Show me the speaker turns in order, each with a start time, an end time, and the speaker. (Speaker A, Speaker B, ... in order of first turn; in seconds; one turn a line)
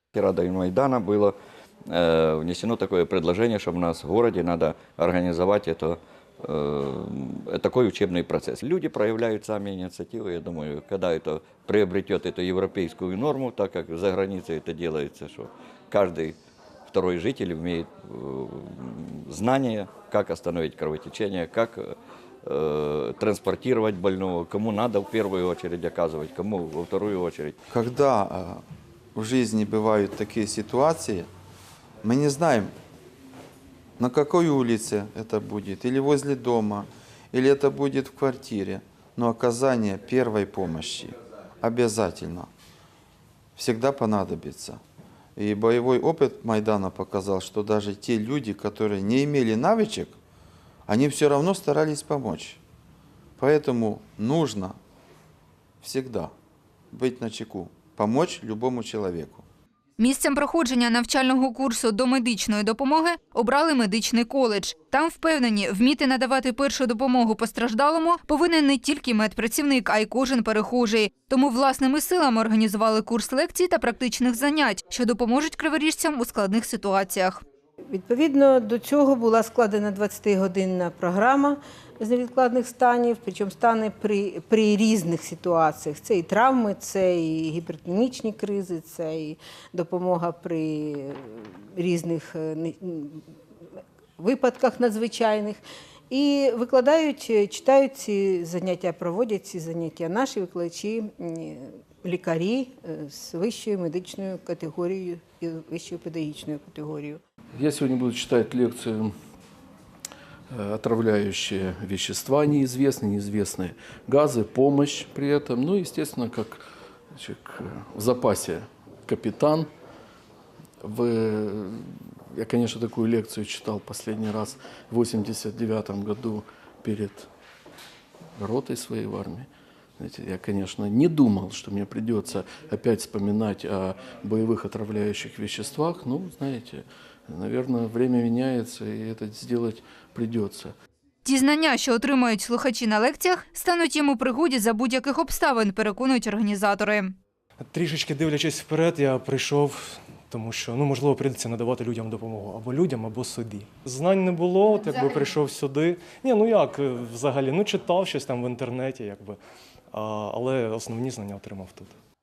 Speaker A: 0.1-1.4
Speaker A: 1.9-16.4
Speaker A: 16.9-27.5
Speaker B: 27.7-28.6
Speaker B: 29.1-31.3
Speaker B: 32.0-32.7
Speaker B: 34.0-42.5
Speaker B: 43.5-44.8
Speaker B: 45.4-50.1
Speaker B: 50.9-52.6
Speaker B: 53.4-54.7
Speaker B: 55.8-56.3
Speaker B: 56.9-59.4
Speaker C: 60.0-77.4
Speaker D: 77.9-93.2
Speaker D: 94.2-107.2
Speaker E: 107.6-109.1
Speaker E: 110.5-119.7
Speaker E: 120.8-127.3
Speaker E: 128.4-140.7
Speaker C: 141.2-147.1
Speaker F: 147.7-159.4
Speaker C: 154.9-155.2
Speaker F: 159.9-161.9